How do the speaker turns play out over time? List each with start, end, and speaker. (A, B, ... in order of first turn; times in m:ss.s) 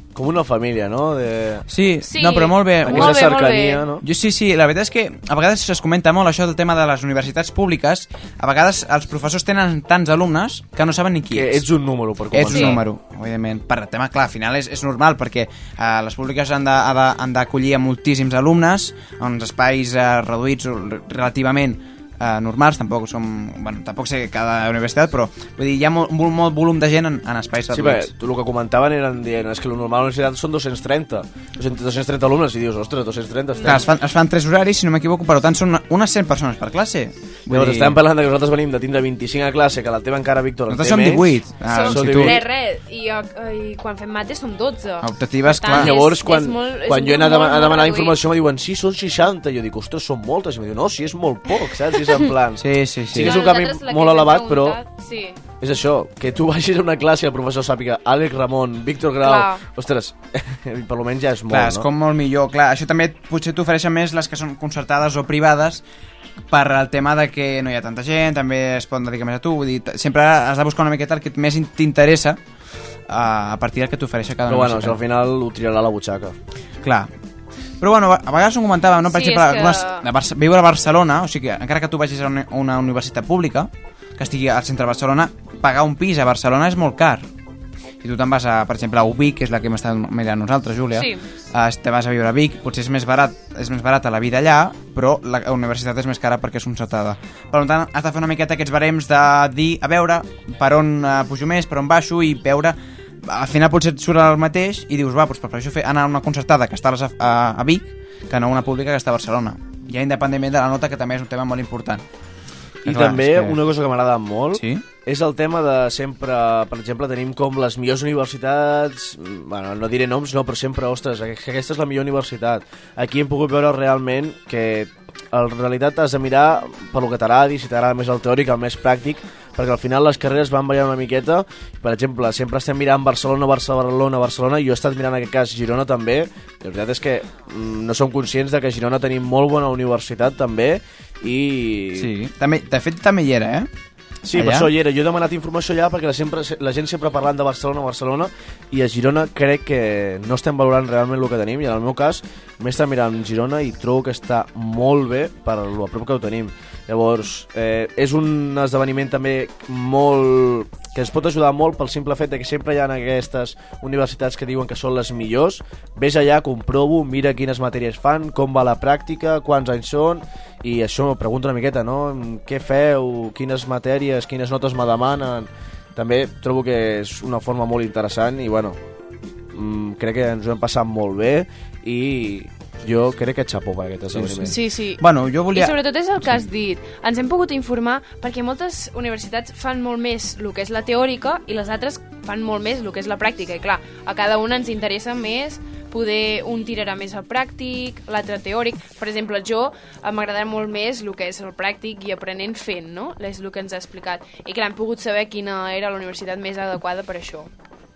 0:00.1-0:01.6 A
0:01.7-0:03.2 B
0:02.0-0:03.8 C
0:02.8-0:04.0 A
0:04.0-0:11.6 B
0:11.3-0:12.8 A
0:12.3-0:28.1 B
0:12.5-0:12.8 C
0:27.7-0:33.8 A
0:33.6-0:33.9 C
0:33.6-0:38.0 B
0:37.5-0:42.4 A
0:40.7-0:42.4 B
0:41.6-0:48.2 C
0:45.0-0:45.9 B
0:45.7-0:54.8 A
0:52.6-0:53.4 B
0:53.2-0:55.4 C
0:55.6-1:01.8 A
0:59.2-0:59.6 C
1:01.5-1:05.8 B
1:06.5-1:12.4 B
1:13.1-1:15.0 B
1:14.5-1:16.3 A
1:16.8-1:17.1 B
1:17.8-1:27.2 B
1:19.1-1:20.0 C
1:28.0-1:52.0 B
1:30.9-1:31.2 C
1:52.8-1:53.6 B
1:52.8-2:22.1 A
1:54.5-1:54.8 B
2:22.0-2:23.7 B
2:24.2-2:58.8 A
2:24.3-2:24.7 B
2:59.5-3:04.5 A
3:04.1-3:06.4 B
3:04.4-3:27.5 C